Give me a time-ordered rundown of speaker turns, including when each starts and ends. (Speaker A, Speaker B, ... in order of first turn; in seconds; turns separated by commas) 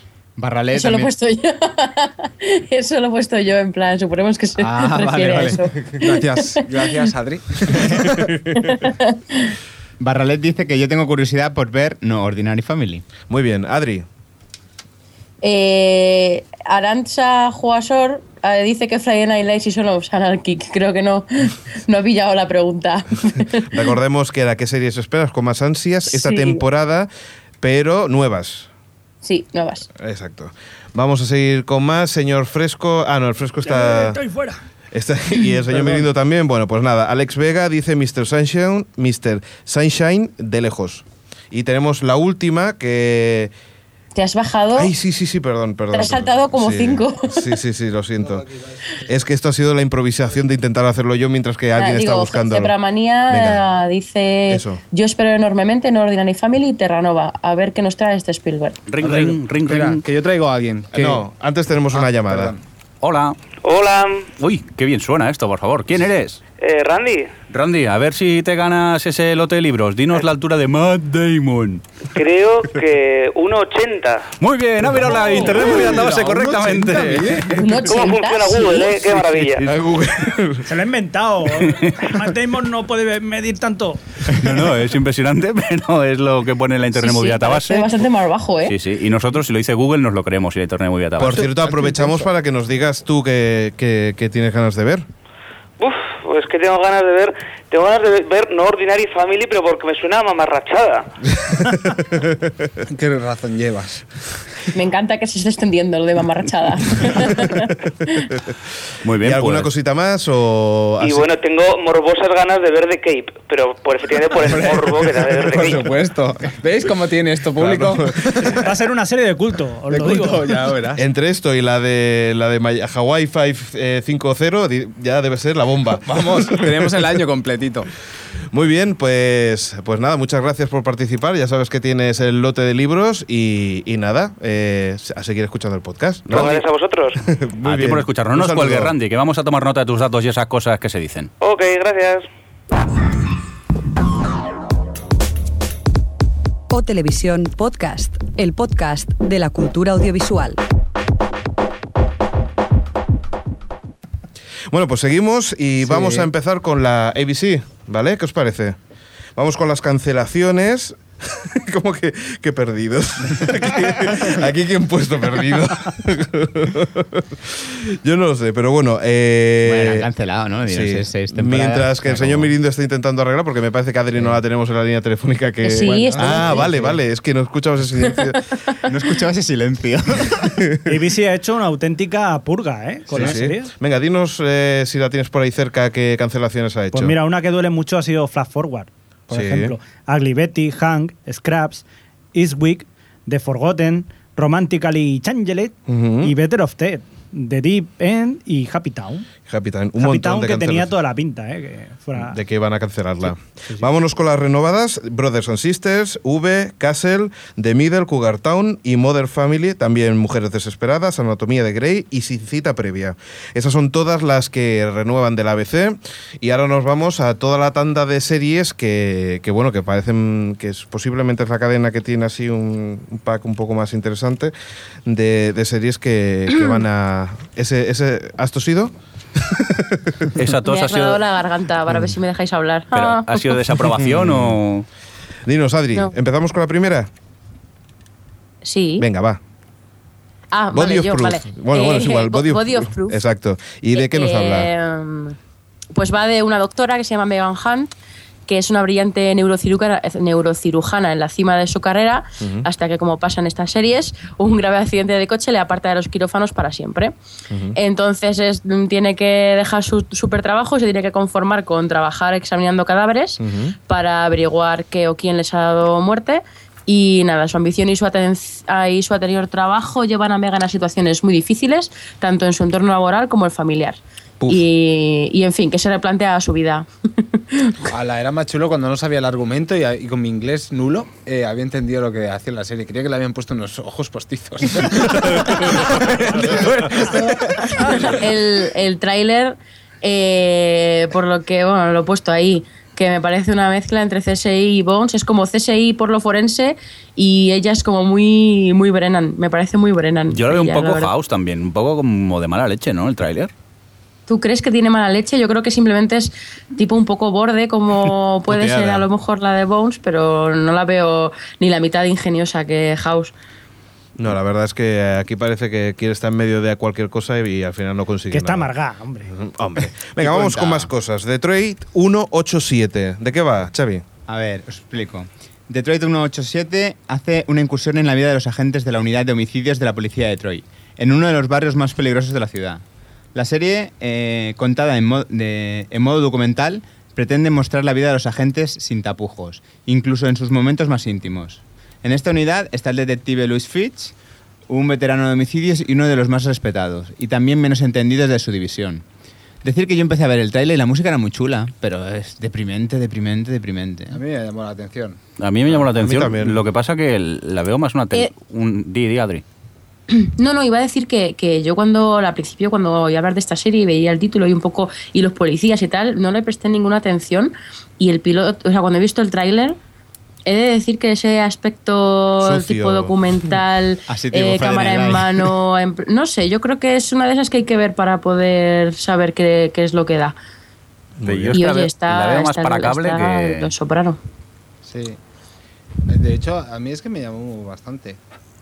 Speaker A: 0.4-1.1, Speaker B: 0.7-7.1, Speaker C: 4.6-8.3, Speaker D: 8.1-8.7, Speaker B: 8.5-9.6, Speaker A: 10.0-13.0, Speaker D: 13.3-14.1, Speaker B: 15.4-23.8, Speaker D: 23.7-27.1, Speaker B: 26.1-26.6, Speaker D: 27.6-28.7, Speaker B: 29.2-29.9, Speaker D: 29.9-34.2, Speaker E: 33.7-34.5, Speaker D: 34.9-43.5, Speaker B: 44.1-44.9, Speaker D: 44.8-48.4, Speaker B: 45.9-47.5, Speaker D: 49.0-52.7, Speaker B: 51.8-58.8, Speaker D: 53.3-53.6, Speaker D: 54.5-54.8, Speaker F: 58.9-60.0, Speaker C: 59.0-61.2, Speaker D: 60.9-62.5, Speaker C: 61.9-62.6, Speaker F: 63.0-63.4, Speaker G: 63.6-64.3, Speaker F: 64.4-66.4, Speaker G: 66.6-67.3, Speaker F: 67.5-71.8, Speaker G: 72.1-74.3, Speaker F: 74.4-77.4, Speaker C: 75.0-77.7, Speaker B: 77.5-79.0, Speaker G: 77.8-79.7, Speaker D: 79.5-80.7, Speaker E: 80.6-84.6, Speaker F: 81.7-81.9, Speaker F: 84.3-87.9, Speaker B: 87.0-88.7, Speaker F: 88.6-91.5, Speaker D: 91.2-95.0, Speaker G: 95.8-101.1, Speaker D: 101.5-102.5, Speaker C: 102.8-104.0, Speaker B: 104.7-108.3, Speaker F: 109.0-109.7, Speaker D: 109.2-111.3, Speaker G: 111.0-115.9, Speaker C: 114.5-118.7, Speaker D: 117.6-118.4, Speaker E: 118.5-120.6, Speaker C: 119.9-121.0, Speaker D: 121.0-126.9, Speaker C: 126.0-127.9, Speaker D: 128.5-136.6, Speaker G: 136.3-137.2, Speaker D: 137.2-138.9, Speaker F: 137.6-141.3, Speaker G: 141.4-142.2, Speaker H: 146.7-150.6, Speaker D: 154.7-158.8, Speaker C: 155.9-156.3, Speaker D: 159.3-170.1, Speaker A: 169.6-172.5, Speaker D: 170.7-178.4, Speaker B: 175.6-176.7, Speaker C: 175.8-176.7, Speaker A: 178.9-180.6, Speaker D: 180.6-180.9, Speaker E: 180.8-183.7, Speaker D: 183.1-187.2, Speaker E: 186.9-199.3, Speaker D: 189.3-189.7, Speaker D: 195.9-196.3, Speaker D: 199.5-200.9, Speaker E: 200.0-202.4, Speaker D: 202.1-224.5, Speaker D: 225.1-230.3, Speaker F: 230.3-231.2, Speaker B: 230.6-233.4, Speaker F: 232.9-234.9, Speaker D: 233.9-234.6, Speaker D: 235.4-237.1, Speaker B: 238.6-239.0, Speaker D: 239.0-239.4, Speaker B: 240.5-243.2, Speaker D: 240.7-244.7, Speaker B: 243.9-245.3, Speaker B: 245.9-247.9, Speaker B: 248.5-257.1, Speaker D: 252.4-252.7, Speaker D: 257.5-257.8, Speaker B: 257.7-277.8, Speaker D: 263.4-263.7, Speaker C: 277.9-288.2, Speaker B: 287.0-301.1, Speaker F: 300.3-303.5, Speaker B: 304.3-313.3, Speaker D: 314.2-318.7, Speaker E: 318.3-319.3, Speaker D: 319.2-324.0, Speaker A: 320.2-320.9, Speaker A: 324.3-332.8, Speaker A: 333.3-344.1, Speaker A: 344.7-349.0, Speaker A: 349.6-354.2, Speaker C: 354.1-355.2, Speaker F: 355.4-359.4, Speaker D: 355.7-356.6, Speaker B: 360.1-369.8, Speaker B: 370.4-380.3, Speaker D: 372.4-373.1, Speaker A: 374.1-375.5, Speaker D: 381.2-381.6, Speaker F: 381.2-383.7, Speaker B: 381.5-384.2, Speaker C: 384.9-385.2, Speaker C: 386.1-388.2